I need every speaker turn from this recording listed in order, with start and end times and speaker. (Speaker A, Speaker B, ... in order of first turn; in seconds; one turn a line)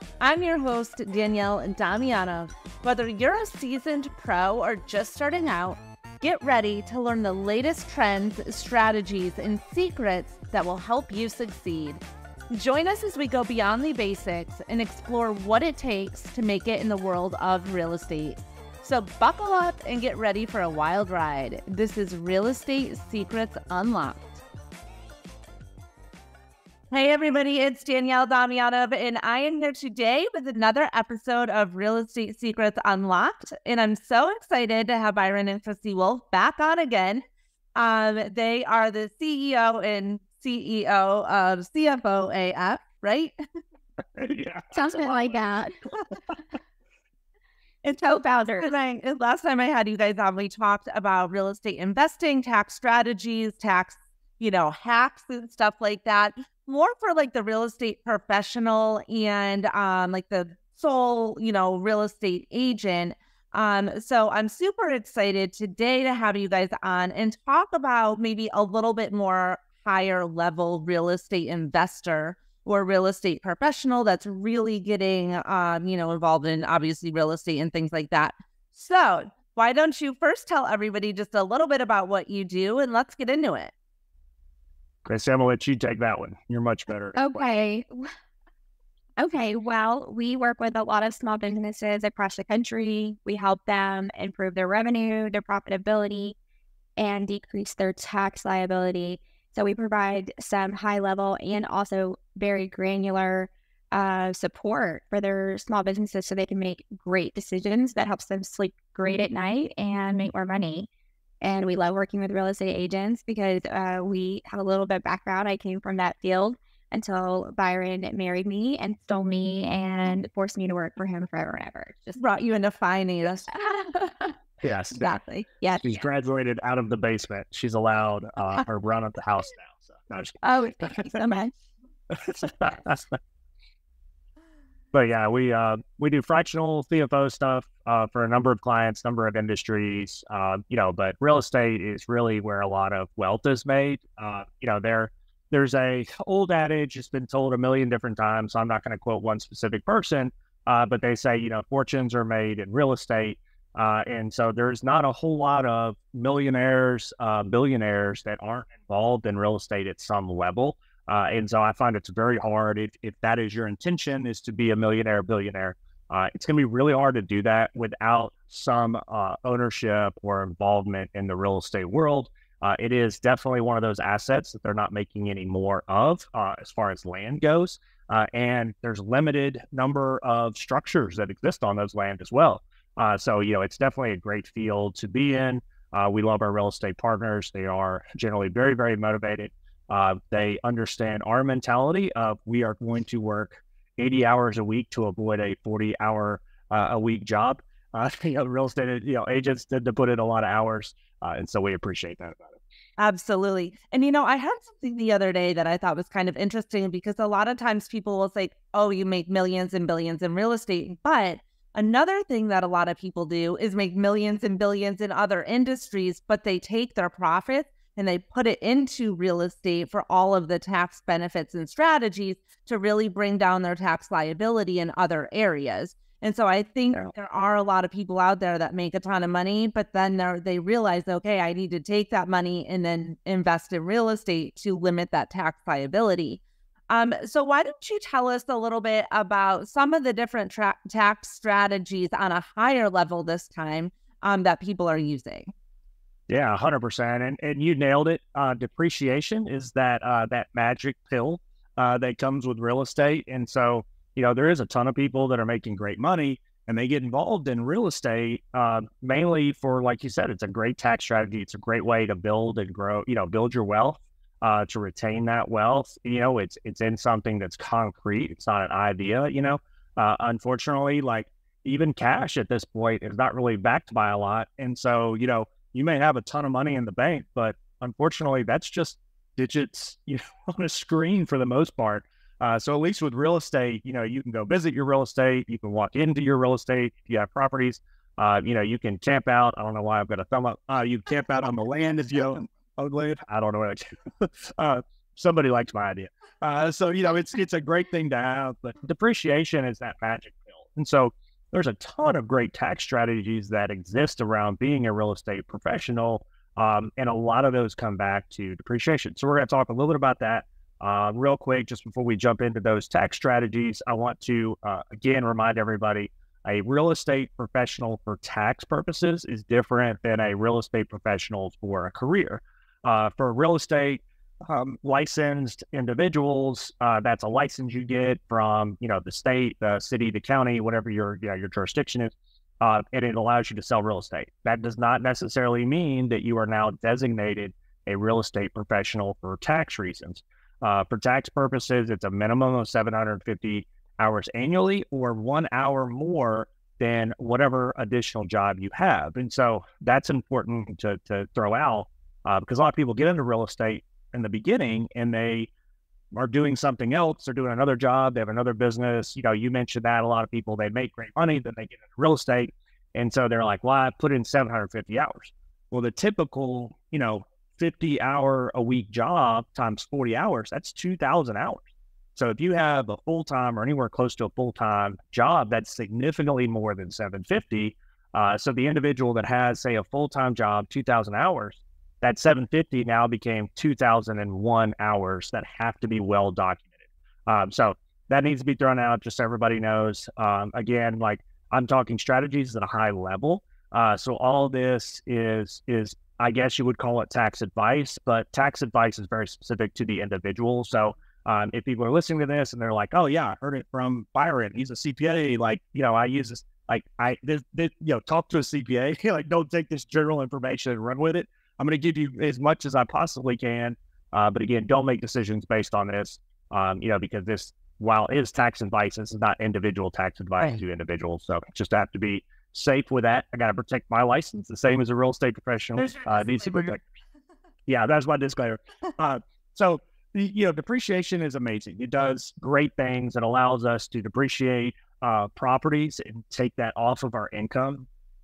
Speaker A: 0.2-24.4
Speaker A: 26.9-37.2
Speaker A: 37.8-43.4
Speaker B: 44.2-45.4
Speaker C: 44.7-45.7
Speaker C: 47.9-48.7
Speaker A: 48.6-83.7
Speaker B: 85.0-87.4
Speaker C: 87.2-88.1
Speaker C: 89.2-96.4
Speaker C: 97.0-110.9
Speaker C: 111.4-122.2
Speaker A: 122.2-123.6
Speaker C: 123.5-124.3
Speaker B: 124.6-125.0
Speaker A: 125.0-125.5
Speaker C: 125.6-125.9
Speaker B: 125.8-131.0
Speaker C: 130.4-131.5
Speaker B: 132.1-133.2
Speaker B: 134.9-202.6
Speaker A: 203.0-245.5
Speaker B: 246.3-355.5
Speaker B: 356.1-386.8
Speaker B: 387.3-426.8
Speaker B: 427.7-437.9